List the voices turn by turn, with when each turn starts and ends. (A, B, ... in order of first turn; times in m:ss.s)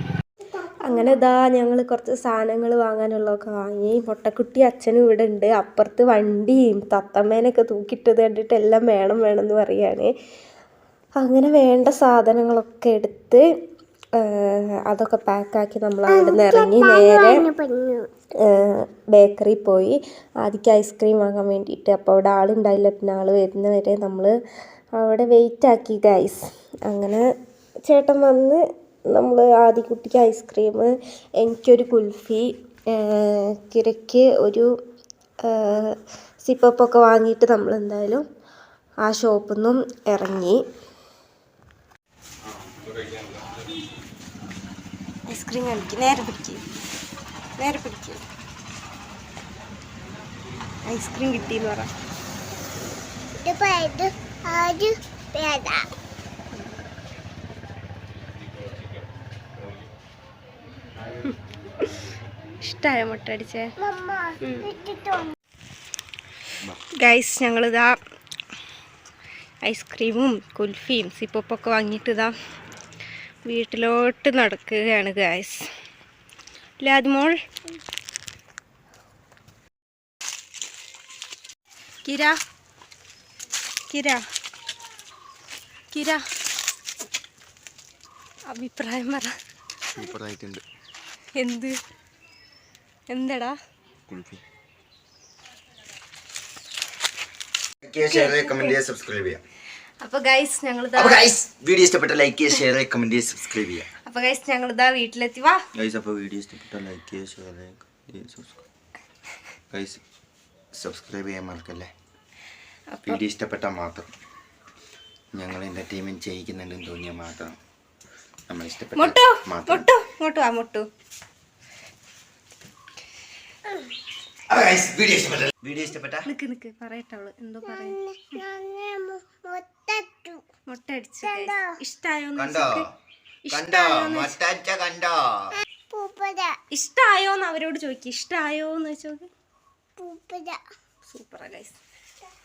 0:00.8-0:10.1 A
0:11.2-0:13.4 A
0:14.2-0:17.4 A
0:16.1-0:18.1 B
0:18.4-0:24.3 A
0:25.0-0:27.2 A
0:27.9-0:28.6 A
0:29.1-0:34.6 A
0:35.5-0:38.2 A
0:39.0-0:40.6 A
0:45.3-0:46.6 A
0:47.6-0:48.2 A
0:50.9-0:51.9 A
0:53.4-0:55.8 B
1:01.2-1:01.8 A
1:02.6-1:03.6 A
1:03.8-1:05.3 B
1:04.4-1:04.7 A
1:07.0-1:07.9 A
1:09.6-1:12.3 A
1:13.5-1:15.6 A
1:16.8-1:17.4 A
1:22.0-1:22.4 A
1:23.9-1:24.2 A
1:25.9-1:26.2 A
1:28.5-1:29.3 A
1:29.9-1:30.6 C
1:31.4-1:31.7 A
1:33.1-1:33.6 A
1:34.1-1:34.4 C
1:37.8-1:39.4 C
1:38.0-1:38.8 A
1:40.0-1:41.3 A
1:41.0-1:43.9 C
1:44.0-1:45.6 A
1:45.7-1:48.6 C
1:49.7-1:50.0 C
1:50.8-1:51.9 C
1:52.9-1:53.2 A
1:53.0-1:54.1 C
1:55.4-1:57.6 C
1:58.5-1:59.9 C
1:59.0-2:00.8 A
2:04.5-2:06.3 C
2:06.2-2:08.4 A
2:07.6-2:10.4 B
2:10.6-2:12.8 A
2:11.2-2:11.7 B
2:12.4-2:12.8 C
2:13.5-2:14.4 A
2:13.5-2:15.5 C
2:15.8-2:16.5 B
2:16.7-2:19.3 A
2:20.0-2:20.6 B
2:21.1-2:21.8 A